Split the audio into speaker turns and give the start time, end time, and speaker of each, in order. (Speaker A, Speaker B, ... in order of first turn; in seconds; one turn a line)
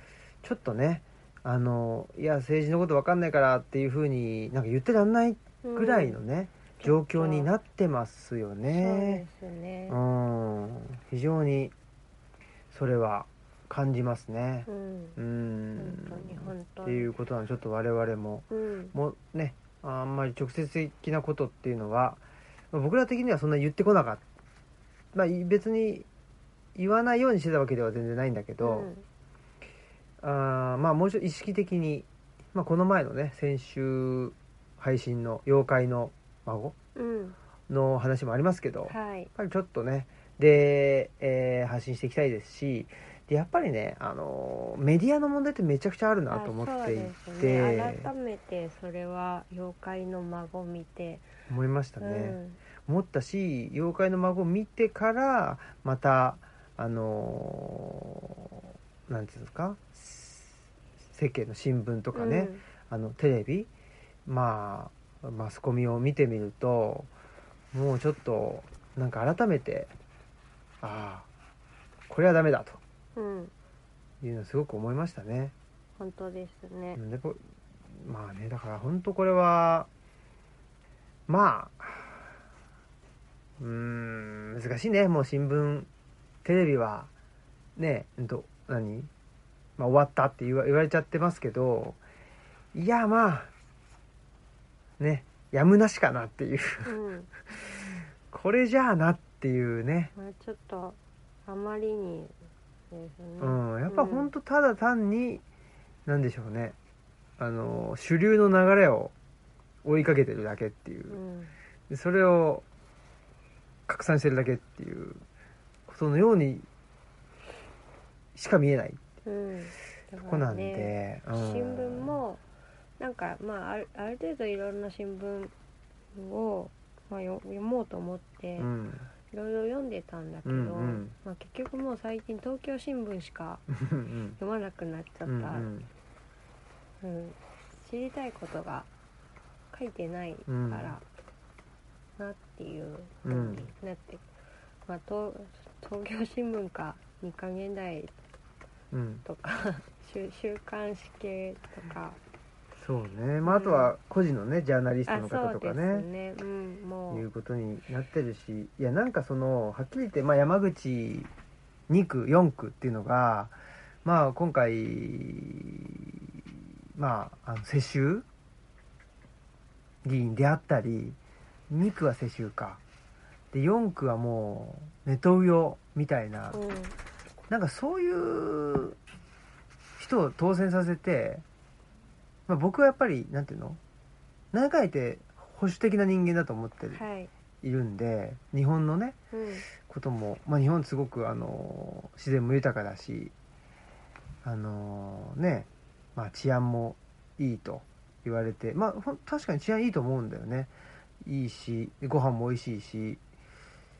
Speaker A: 0.4-9.2
Speaker B: 5.6-6.2
Speaker B: 6.8-7.5
Speaker B: 8.7-10.0
Speaker A: 9.9-11.7
Speaker A: 12.7-22.2
Speaker B: 14.7-15.2
Speaker B: 15.8-17.1
Speaker B: 18.5-18.9
Speaker A: 22.7-24.2
Speaker A: 25.1-26.1
Speaker A: 26.7-28.9
Speaker B: 28.6-29.0
Speaker A: 30.2-36.7
Speaker B: 36.9-37.4
Speaker A: 37.7-48.1
Speaker B: 38.9-39.3
Speaker B: 46.3-51.3
Speaker A: 51.5-63.7
Speaker B: 52.0-52.6
Speaker B: 62.1-62.6
Speaker A: 64.2-67.1
Speaker A: 67.7-69.9
Speaker A: 70.8-71.3
Speaker A: 72.1-72.8
Speaker B: 73.1-73.5
Speaker A: 74.2-75.5
Speaker B: 76.0-77.0
Speaker A: 77.0-77.4
Speaker A: 78.0-79.9
Speaker A: 81.3-82.3
Speaker A: 83.6-85.9
Speaker A: 86.4-87.1
Speaker A: 87.8-89.1
Speaker A: 89.8-92.0
Speaker A: 92.7-93.5
Speaker A: 95.0-96.9
Speaker B: 96.8-97.3
Speaker A: 97.5-100.1
Speaker B: 100.1-102.3
Speaker B: 102.9-104.3
Speaker A: 103.4-105.4
Speaker A: 106.0-106.8
Speaker A: 107.4-109.1
Speaker A: 109.8-111.2
Speaker B: 111.1-111.5
Speaker A: 111.9-112.6
Speaker A: 113.9-115.2
Speaker A: 115.9-116.7
Speaker A: 118.3-119.0
Speaker B: 119.2-122.4
Speaker A: 120.2-122.2
Speaker B: 123.0-125.5
Speaker B: 126.1-128.7
Speaker A: 128.6-129.1
Speaker B: 129.3-133.6
Speaker A: 130.4-131.1
Speaker A: 133.7-134.4
Speaker B: 134.4-135.7
Speaker A: 135.2-135.9
Speaker B: 137.0-138.9
Speaker B: 139.7-141.0
Speaker A: 140.5-140.9
Speaker B: 142.2-144.2
Speaker A: 143.2-143.7
Speaker B: 144.9-148.1
Speaker A: 148.9-149.2
Speaker B: 149.2-152.2
Speaker A: 152.8-156.1
Speaker B: 153.4-153.9
Speaker B: 155.1-157.3
Speaker A: 157.1-161.3
Speaker A: 161.9-168.2
Speaker A: 170.0-171.2
Speaker A: 171.7-172.8
Speaker A: 173.5-176.6
Speaker B: 176.5-176.9
Speaker A: 177.5-179.0
Speaker A: 180.0-181.4
Speaker A: 182.5-183.8
Speaker A: 184.5-187.0
Speaker B: 186.9-187.3
Speaker A: 187.6-189.2
Speaker B: 189.3-189.7
Speaker A: 189.8-193.3
Speaker A: 194.4-200.7
Speaker A: 201.2-203.2